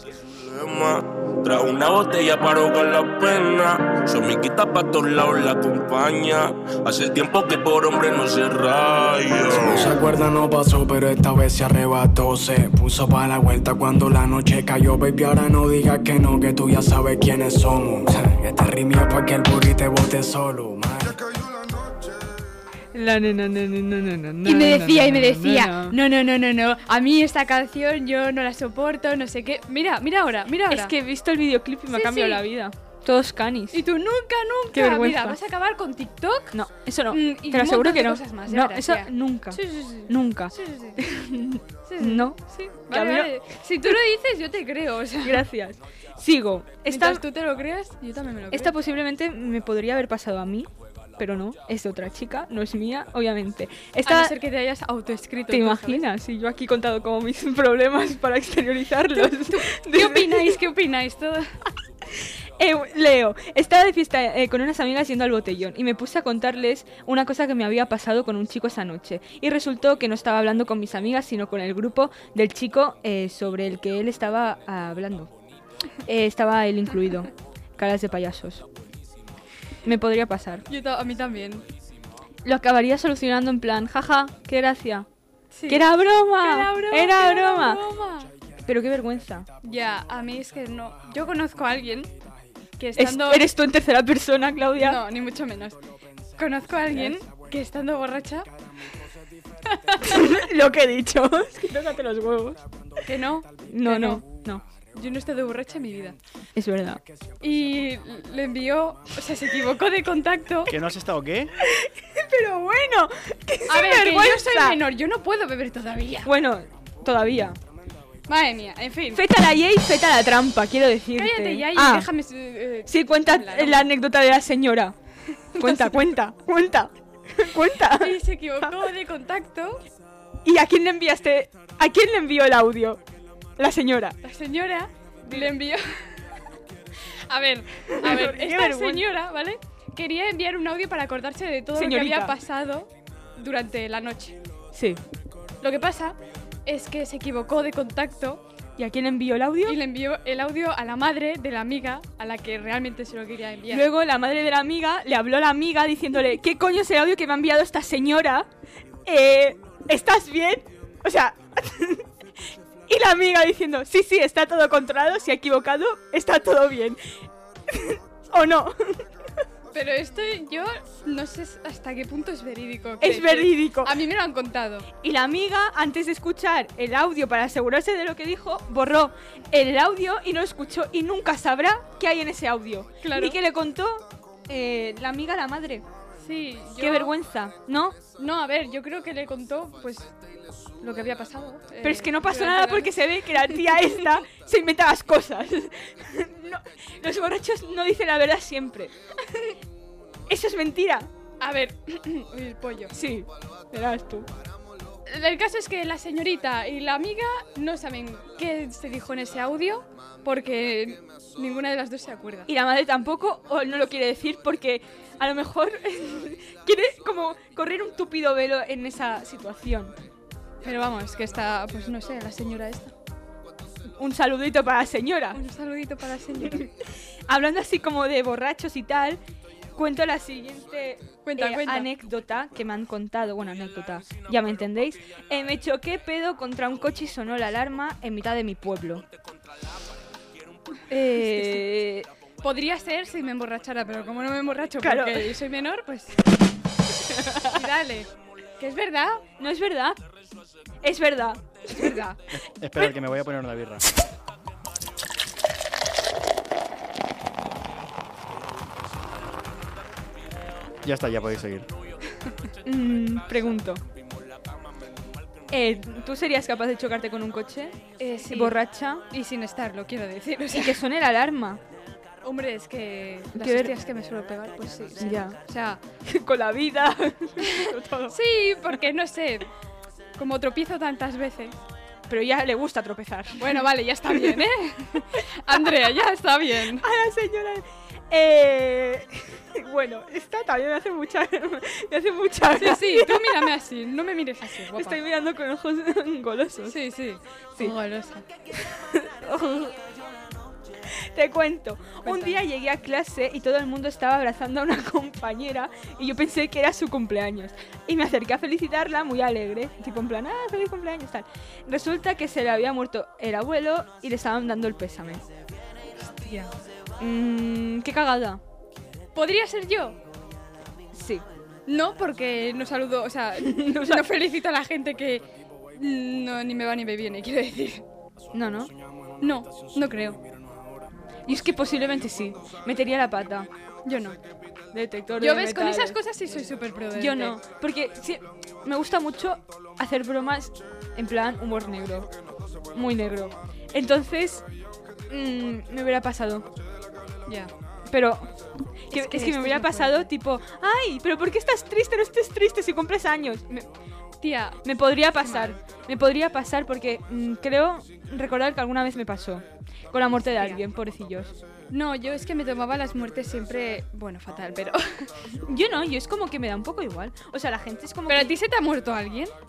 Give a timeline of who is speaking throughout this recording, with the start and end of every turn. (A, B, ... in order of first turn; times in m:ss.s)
0:00.1-0:10.1 A
0:09.5-0:21.3 B
0:22.9-0:26.0 C
0:24.4-0:30.9 D
0:30.7-0:33.8 C
0:31.9-0:32.4 D
0:33.7-0:36.6 D
0:34.7-0:35.4 C
0:36.5-0:42.4 C
0:37.1-0:41.0 D
0:41.9-0:45.4 D
0:42.9-0:43.9 C
0:45.2-0:47.2 C
0:46.9-0:48.8 D
0:48.5-0:54.3 C
0:54.1-0:56.0 D
0:55.5-1:00.6 C
0:59.1-1:01.6 D
1:02.1-1:15.3 C
1:16.0-1:18.7 C
1:19.8-1:20.7 C
1:20.7-1:21.6 D
1:22.4-1:25.1 C
1:25.5-1:28.3 D
1:25.7-1:27.8 C
1:28.6-1:29.5 C
1:29.6-1:32.1 D
1:32.8-1:33.4 D
1:33.0-1:35.0 C
1:34.8-1:35.8 D
1:36.4-1:38.5 D
1:36.9-1:37.2 C
1:39.6-1:40.4 D
1:40.0-1:42.6 C
1:43.0-1:44.2 D
1:43.7-1:44.6 C
1:44.9-1:46.2 D
1:46.6-1:47.0 C
1:47.4-1:50.7 D
1:50.7-1:51.6 E
1:51.6-1:54.8 C
1:53.7-1:56.3 D
1:56.2-1:57.6 C
1:58.3-1:59.2 D
1:59.1-2:02.1 C
2:01.2-2:03.9 D
2:02.9-2:05.0 C
2:05.4-2:06.0 D
2:05.6-2:08.8 C
2:07.9-2:09.8 D
2:10.4-2:13.0 C
2:13.6-2:14.2 C
2:14.2-2:16.4 D
2:15.3-2:15.5 C
2:17.3-2:24.4 D
2:17.9-2:19.0 C
2:21.8-2:22.4 C
2:24.7-2:25.0 C
2:25.6-2:28.4 D
2:28.8-2:29.8 C
2:29.7-2:33.9 D
2:33.7-2:38.5 C
2:39.0-2:42.1 C
2:42.9-2:47.0 C
2:47.7-2:49.0 C
2:49.7-2:54.9 D
2:53.0-2:54.0 C
2:55.0-3:05.8 C
3:03.0-3:03.4 D
3:06.2-3:07.2 D
3:06.8-3:08.0 C
3:08.2-3:10.1 D
3:10.8-3:13.8 D
3:11.8-3:18.9 C
3:20.3-3:21.1 C
3:21.4-3:22.9 D
3:22.9-3:24.3 C
3:25.1-3:32.5 D
3:32.5-3:39.9 C
3:40.6-3:42.9 D
3:44.0-3:45.4 C
3:45.3-3:46.7 D
3:46.4-3:46.7 C
3:47.3-3:49.2 C
3:49.8-3:59.1 C
3:51.2-3:51.9 D
4:00.9-4:02.1 C
4:01.2-4:01.6 D
4:02.4-4:06.2 D
4:04.8-4:05.4 C
4:07.0-4:07.6 C
4:07.4-4:09.2 D
4:09.4-4:10.0 C
4:10.8-4:12.1 C
4:11.7-4:12.2 D
4:12.3-4:13.9 E
4:20.8-4:21.7 E
4:22.6-4:23.8 C
4:25.5-4:29.0 C
4:28.0-4:28.6 D
4:29.1-4:30.8 D
4:30.5-4:31.6 C
4:32.2-4:35.8 D
4:33.4-4:33.8 C
4:35.0-4:35.4 C
4:36.0-4:38.2 C
4:38.1-4:39.5 D
4:40.2-4:41.6 D
4:42.1-4:44.5 C
4:43.4-4:46.8 D
4:46.8-4:53.5 C
4:52.6-4:55.0 D
4:54.7-4:56.8 C
4:56.7-4:58.3 D
4:58.6-4:59.8 C
5:00.9-5:15.2 C
5:02.0-5:02.4 D
5:16.0-5:16.5 D
5:17.0-5:18.4 C
5:19.2-5:20.0 D
5:20.9-5:21.2 C
5:21.7-5:27.8 D
5:23.4-5:24.1 C
5:28.3-5:28.7 C
5:29.2-5:30.2 D
5:31.3-5:33.5 C
5:33.8-5:34.2 D
5:34.7-5:36.0 C
5:35.2-5:37.4 D
5:37.0-5:42.1 C
5:42.7-5:44.4 C
5:45.1-5:46.5 C
5:47.3-5:47.5 D
5:47.9-5:48.3 C
5:48.9-5:53.7 C
5:48.9-5:50.1 D
5:54.2-5:54.6 D
5:54.6-6:01.4 C
5:55.2-5:55.6 D
6:01.7-6:05.1 D
6:05.4-6:08.4 C
6:08.1-6:09.3 D